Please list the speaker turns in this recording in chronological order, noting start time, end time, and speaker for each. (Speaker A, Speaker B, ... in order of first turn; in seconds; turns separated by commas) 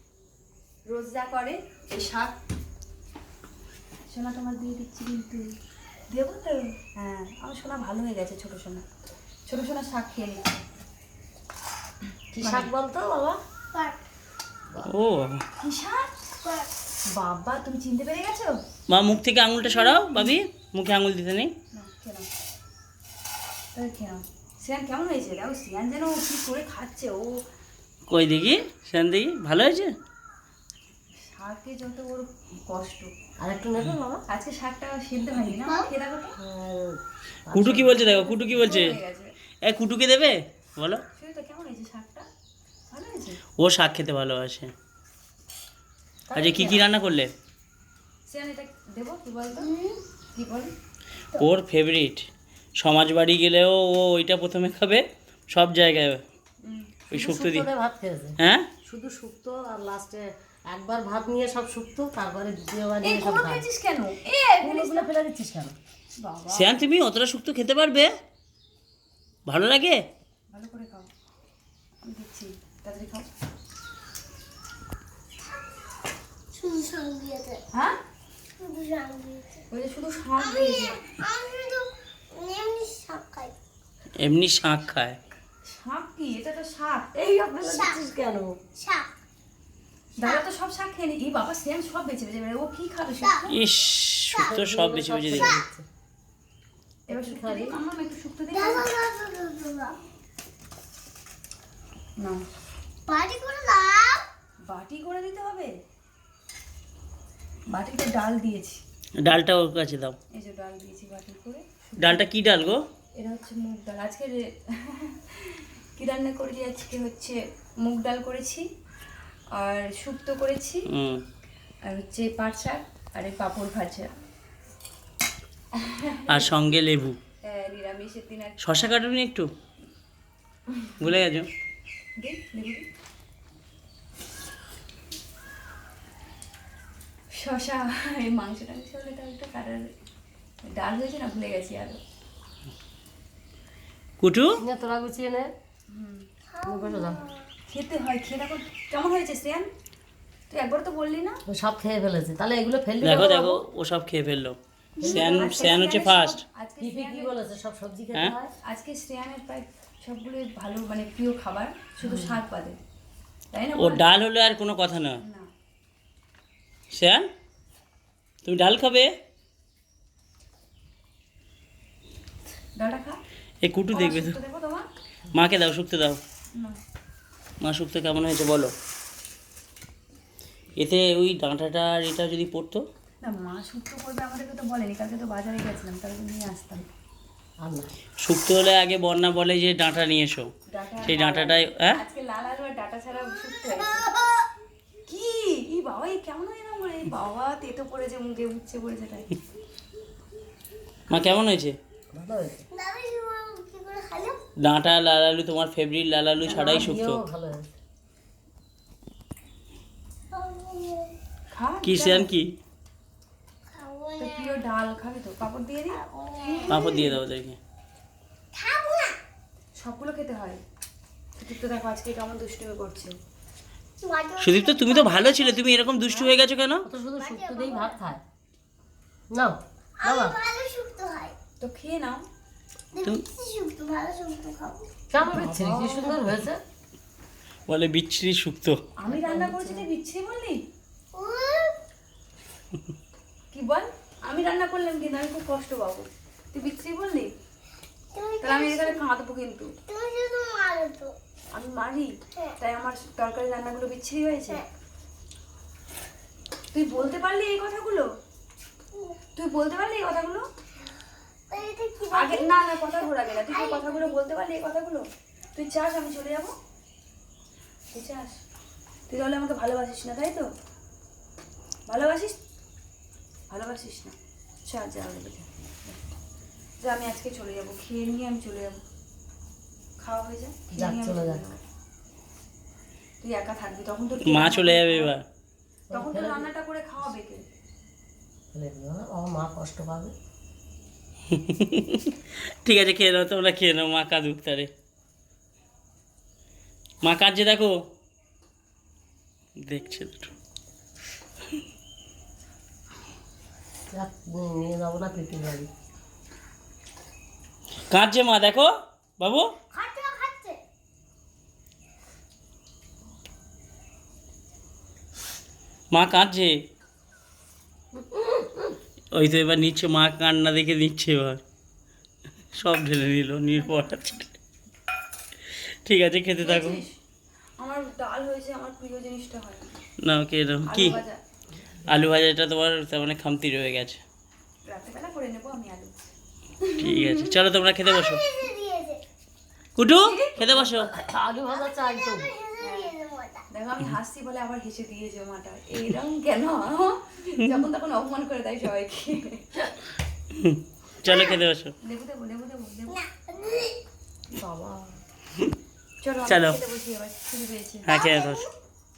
Speaker A: 0.9-2.3, Speaker A: 4.1-5.4, Speaker A: 6.1-8.8, Speaker A: 9.5-10.6, Speaker B: 12.3-13.4, Speaker A: 12.4-12.7, Speaker C: 13.7-14.0, Speaker D: 14.9-15.4, Speaker A: 15.6-16.1, Speaker C: 16.4-16.7, Speaker A: 17.1-18.5, Speaker D: 18.9-21.5, Speaker A: 19.6-20.4, Speaker A: 21.7-22.3, Speaker A: 23.7-27.4, Speaker D: 28.1-29.9, Speaker A: 31.2-33.1, Speaker B: 33.4-34.2, Speaker A: 34.3-36.3, Speaker C: 35.6-35.9, Speaker B: 36.4-38.0, Speaker D: 37.5-39.0, Speaker A: 37.9-39.3, Speaker D: 39.6-41.0, Speaker A: 41.1-42.2, Speaker A: 42.9-43.4, Speaker D: 43.6-44.7, Speaker B: 46.3-46.9, Speaker D: 46.3-47.3, Speaker A: 48.3-49.7, Speaker C: 49.5-50.0, Speaker A: 50.3-50.7, Speaker D: 51.4-52.3, Speaker D: 52.8-56.2, Speaker A: 56.6-57.0, Speaker D: 57.1-57.7, Speaker B: 57.1-63.6, Speaker D: 58.4-58.7, Speaker A: 63.0-65.1, Speaker B: 64.6-65.8, Speaker A: 66.2-66.8, Speaker D: 66.5-68.1, Speaker D: 69.5-70.0, Speaker A: 70.5-71.1, Speaker A: 72.0-73.2, Speaker C: 75.5-75.9, Speaker C: 76.5-77.6, Speaker C: 78.6-79.6, Speaker A: 79.7-81.0, Speaker C: 80.4-83.5, Speaker D: 84.2-85.2, Speaker A: 85.6-87.1, Speaker B: 87.1-88.6, Speaker C: 87.6-88.0, Speaker C: 88.8-89.1, Speaker A: 90.2-93.5, Speaker C: 90.2-90.4, Speaker C: 93.2-93.5, Speaker D: 93.5-95.6, Speaker B: 94.3-95.8, Speaker C: 95.3-95.6, Speaker B: 97.1-97.8, Speaker A: 97.1-98.9, Speaker C: 98.5-100.0, Speaker C: 103.0-104.2, Speaker A: 104.6-105.7, Speaker A: 107.7-108.8, Speaker D: 109.2-110.2, Speaker A: 110.3-112.2, Speaker D: 112.0-112.8, Speaker A: 113.2-118.6, Speaker A: 119.5-120.8, Speaker D: 120.9-121.2, Speaker A: 121.8-124.1, Speaker A: 125.7-126.5, Speaker D: 126.3-127.2, Speaker A: 127.4-128.7, Speaker D: 128.6-129.5, Speaker A: 130.7-131.0, Speaker D: 131.0-131.5, Speaker A: 132.2-132.8, Speaker A: 137.3-139.9, Speaker A: 140.6-142.0, Speaker D: 144.2-144.6, Speaker B: 144.6-145.5, Speaker A: 145.9-146.3, Speaker C: 146.5-147.5, Speaker B: 146.7-147.2, Speaker A: 147.7-149.7, Speaker A: 150.5-151.4, Speaker B: 151.5-153.6, Speaker D: 153.0-156.4, Speaker B: 155.0-155.8, Speaker A: 155.0-157.4, Speaker B: 156.8-158.5, Speaker A: 158.6-162.8, Speaker B: 162.0-162.4, Speaker A: 163.5-164.0, Speaker D: 163.8-165.2, Speaker A: 165.2-165.5, Speaker D: 166.9-167.2, Speaker D: 168.4-169.1, Speaker A: 172.7-173.2, Speaker D: 173.6-174.4, Speaker A: 173.9-174.8, Speaker D: 175.3-176.2, Speaker D: 177.6-178.7, Speaker D: 180.8-182.8, Speaker A: 183.2-186.8, Speaker B: 187.6-187.9, Speaker D: 188.2-190.5, Speaker A: 190.7-194.1, Speaker D: 191.0-191.9, Speaker C: 193.7-194.5, Speaker A: 195.1-199.3, Speaker D: 201.1-201.8, Speaker B: 202.1-202.6, Speaker C: 202.7-204.4, Speaker D: 204.6-207.2, Speaker B: 206.4-207.7, Speaker C: 210.3-211.2, Speaker A: 211.5-212.3, Speaker D: 211.8-212.5, Speaker C: 213.7-214.6, Speaker A: 214.2-217.2, Speaker C: 215.9-217.0, Speaker D: 216.7-217.6, Speaker C: 218.5-219.2, Speaker A: 219.8-220.6, Speaker A: 221.4-223.1, Speaker C: 224.0-225.7, Speaker D: 224.4-226.8, Speaker B: 226.8-228.2, Speaker C: 227.2-228.0, Speaker B: 229.3-230.4, Speaker C: 230.0-231.3, Speaker A: 231.6-232.2, Speaker C: 232.9-234.9, Speaker B: 235.1-236.6, Speaker A: 235.4-235.9, Speaker D: 237.7-238.8, Speaker A: 239.0-240.6, Speaker B: 239.1-239.9, Speaker C: 241.1-241.8, Speaker A: 243.5-247.3, Speaker C: 248.1-249.0, Speaker A: 248.4-249.7, Speaker C: 249.9-251.1, Speaker A: 251.5-254.6, Speaker A: 256.7-258.1, Speaker C: 258.9-259.2, Speaker A: 259.3-260.4, Speaker C: 261.5-264.2, Speaker A: 262.1-266.5, Speaker A: 267.9-268.4, Speaker A: 269.1-270.5, Speaker A: 271.9-272.4, Speaker A: 273.5-276.0, Speaker A: 276.8-278.8, Speaker A: 280.0-281.6, Speaker B: 280.7-281.5, Speaker A: 283.2-285.1, Speaker D: 284.2-285.2, Speaker B: 285.9-286.5, Speaker A: 285.9-287.4, Speaker B: 288.5-290.1, Speaker D: 291.3-292.1, Speaker D: 292.6-294.7, Speaker D: 297.0-297.7, Speaker D: 299.6-300.3, Speaker B: 303.9-305.7, Speaker D: 307.9-309.5, Speaker C: 309.7-310.6, Speaker D: 315.9-316.5, Speaker B: 317.9-318.8, Speaker D: 319.1-321.4, Speaker D: 322.5-324.3, Speaker A: 323.7-323.9, Speaker D: 325.8-326.8, Speaker A: 326.4-327.0, Speaker A: 327.6-329.7, Speaker D: 330.0-331.0, Speaker A: 330.7-331.2, Speaker D: 331.9-334.0, Speaker A: 334.6-336.1, Speaker A: 336.6-337.4, Speaker D: 336.8-338.2, Speaker C: 337.8-339.0, Speaker D: 339.8-340.9, Speaker A: 339.9-340.4, Speaker B: 340.6-342.3, Speaker C: 341.5-343.4, Speaker A: 342.6-342.9, Speaker A: 343.5-349.6, Speaker D: 350.3-351.7, Speaker C: 351.0-351.4, Speaker A: 351.8-353.0, Speaker C: 352.9-353.8, Speaker B: 354.4-354.9, Speaker A: 356.0-357.9, Speaker D: 356.2-356.6, Speaker D: 357.8-358.4, Speaker C: 357.9-358.5